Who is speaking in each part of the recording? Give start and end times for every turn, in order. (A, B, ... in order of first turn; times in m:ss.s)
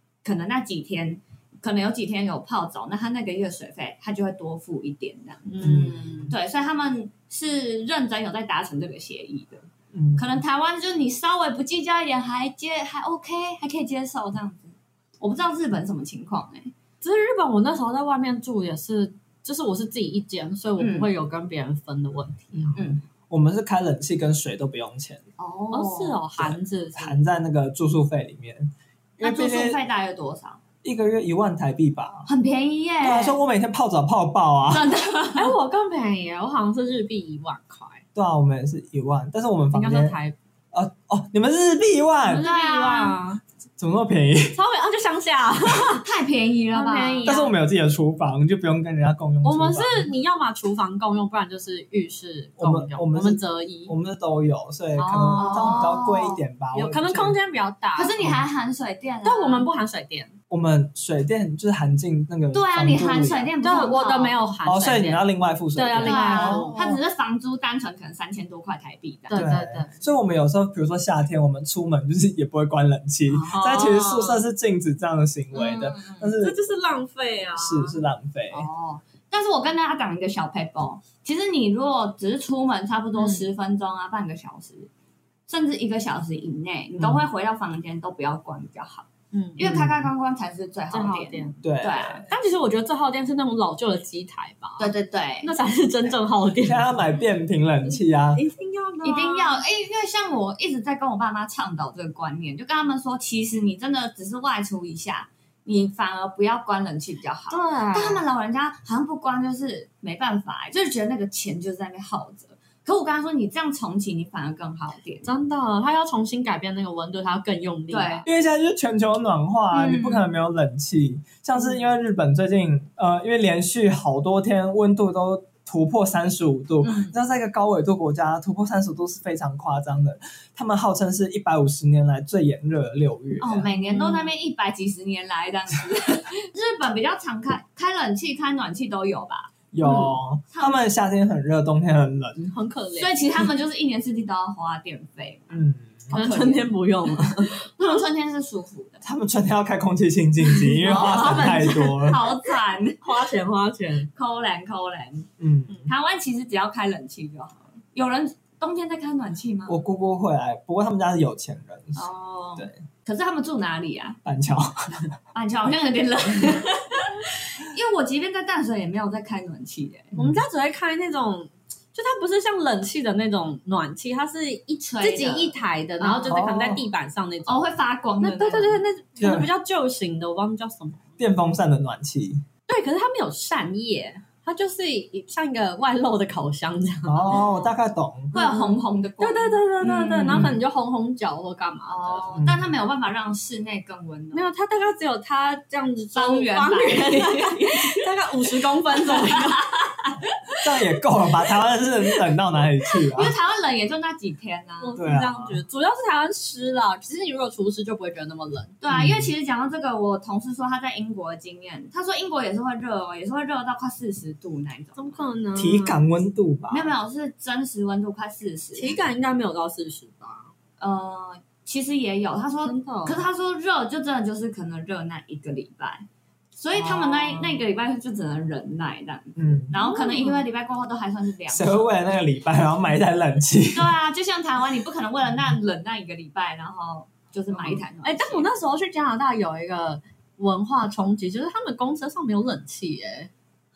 0:00.2-0:05.5 A
0:05.5-0:06.3 B
0:05.6-0:06.3 C
0:06.3-0:09.6 A
0:09.9-0:10.4 C
0:10.2-0:16.7 A
0:17.0-0:22.8 B
0:20.8-0:21.1 A
0:22.5-0:25.2 C
0:22.8-0:23.0 A
0:25.4-0:26.2 A
0:25.7-0:27.2 B
0:26.4-0:29.8 C
0:29.2-0:30.6 A
0:30.8-0:32.3 C
0:32.3-0:33.4 A
0:33.0-0:34.9 C
0:34.7-0:35.5 A
0:35.4-0:38.0 B
0:38.2-0:40.2 C
0:39.7-0:40.4 B
0:40.7-0:42.5 C
0:42.3-0:43.4 B
0:42.4-0:43.2 A
0:43.8-0:44.6 C
0:44.5-0:46.0 B
0:46.0-0:47.3 A
0:46.7-0:47.5 B
0:47.2-0:50.1 C
0:49.4-0:54.0 B
0:52.6-0:57.4 C
0:55.0-0:55.9 B
0:55.4-0:56.4 A
0:56.7-0:58.2 B
0:58.0-0:59.7 A
0:59.2-1:00.3 B
1:00.5-1:03.5 C
1:02.5-1:04.4 A
1:03.6-1:07.0 B
1:04.6-1:06.7 C
1:06.0-1:09.4 A
1:09.3-1:10.0 B
1:09.3-1:16.6 C
1:13.4-1:14.4 B
1:13.4-1:14.0 A
1:15.5-1:16.4 A
1:16.4-1:18.0 B
1:17.6-1:18.7 C
1:18.5-1:24.9 A
1:23.2-1:23.5 B
1:25.5-1:32.2 A
1:29.3-1:29.7 B
1:29.6-1:30.1 C
1:30.9-1:31.6 B
1:31.6-1:32.2 C
1:32.3-1:34.9 B
1:34.8-1:35.5 A
1:35.4-1:36.9 B
1:36.6-1:38.4 C
1:38.4-1:39.6 B
1:39.0-1:55.3 A
1:47.5-1:48.2 B
1:55.2-1:58.2 B
1:57.9-1:58.2 A
1:58.2-2:13.7 C
1:59.7-2:00.3 A
2:06.8-2:07.1 A
2:13.4-2:20.8 A
2:13.8-2:14.3 B
2:19.7-2:22.5 C
2:22.5-2:23.2 B
2:23.0-2:29.0 A
2:25.5-2:26.1 C
2:26.1-2:28.0 B
2:29.0-2:32.2 C
2:30.7-2:32.2 B
2:30.8-2:33.0 A
2:33.0-2:34.1 B
2:34.2-2:35.3 A
2:35.4-2:35.8 C
2:35.8-2:39.8 A
2:39.7-2:42.8 C
2:42.0-2:44.2 A
2:44.2-2:45.1 C
2:45.3-2:50.1 A
2:50.2-2:50.4 C
2:50.2-2:57.6 B
2:54.9-2:56.4 A
2:56.3-2:56.8 C
2:57.5-2:58.8 A
2:58.2-3:01.2 B
2:59.2-2:59.5 C
3:01.2-3:02.4 C
3:02.7-3:07.5 B
3:07.1-3:08.3 C
3:08.3-3:10.6 A
3:08.3-3:12.4 B
3:10.3-3:10.6 C
3:11.9-3:14.5 A
3:12.3-3:12.7 C
3:14.3-3:19.6 B
3:16.2-3:18.0 A
3:19.0-3:20.2 A
3:20.6-3:23.3 C
3:23.2-3:25.0 A
3:24.8-3:28.8 B
3:25.0-3:25.6 C
3:28.8-3:35.2 A
3:28.9-3:29.3 C
3:35.0-3:36.0 B
3:35.6-3:36.9 C
3:36.7-3:39.0 A
3:38.8-3:40.5 B
3:40.8-3:51.9 A
3:42.6-3:43.2 B
3:46.8-3:47.6 B
3:49.4-3:49.7 C
3:49.7-3:50.4 B
3:51.5-3:53.9 C
3:53.7-3:58.5 A
3:57.6-4:03.3 B